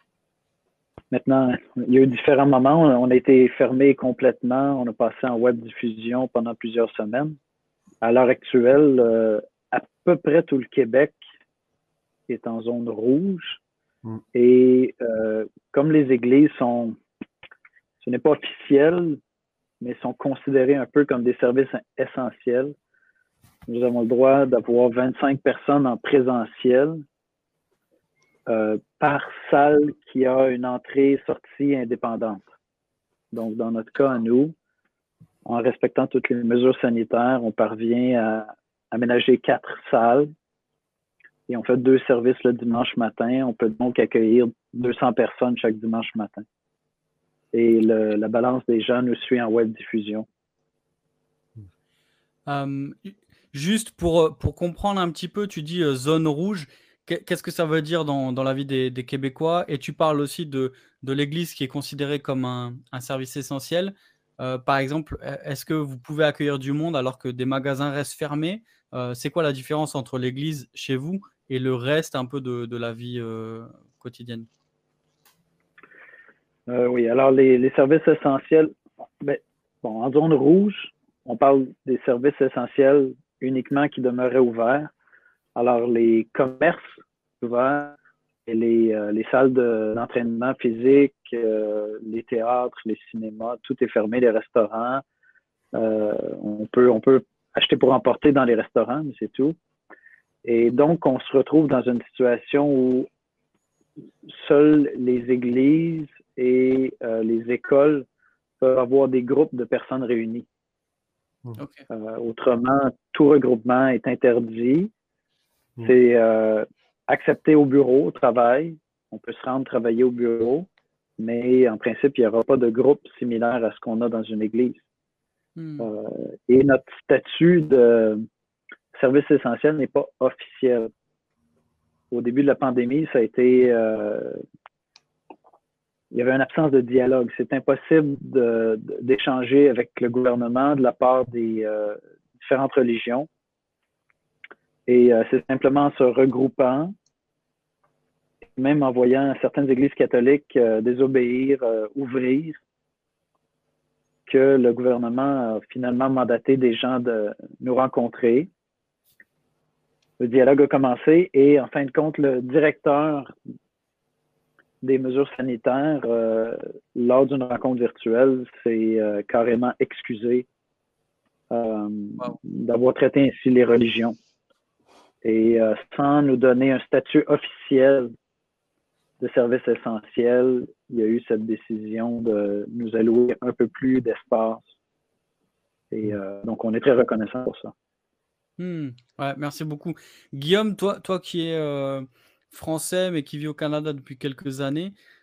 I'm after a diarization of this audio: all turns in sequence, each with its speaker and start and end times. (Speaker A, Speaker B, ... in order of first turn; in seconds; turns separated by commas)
Speaker A: 1.1-7.4, Speaker A: 8.0-11.1, Speaker A: 12.3-13.6, Speaker A: 14.3-17.0, Speaker A: 18.0-19.2, Speaker A: 19.8-22.7, Speaker A: 23.7-27.0, Speaker A: 28.5-32.4, Speaker A: 33.3-34.5, Speaker A: 35.5-40.3, Speaker A: 41.5-46.4, Speaker A: 47.5-50.2, Speaker B: 52.5-74.5, Speaker A: 76.7-84.9, Speaker A: 85.5-86.8, Speaker A: 87.4-87.9, Speaker A: 88.5-95.0, Speaker A: 95.7-99.5, Speaker A: 100.4-103.1, Speaker A: 104.3-108.0, Speaker A: 108.6-110.5, Speaker B: 111.6-111.8, Speaker A: 111.9-114.9, Speaker A: 115.8-120.7, Speaker A: 121.2-124.8, Speaker B: 125.5-125.9, Speaker A: 125.8-128.2, Speaker A: 128.9-130.9, Speaker A: 132.1-134.4, Speaker A: 136.1-143.3, Speaker A: 144.9-146.9, Speaker A: 148.6-152.6, Speaker A: 154.3-158.5, Speaker A: 160.2-163.3, Speaker A: 164.8-170.5, Speaker A: 171.5-174.1, Speaker A: 175.2-178.1, Speaker A: 179.2-184.6, Speaker A: 185.9-187.7, Speaker B: 188.6-194.9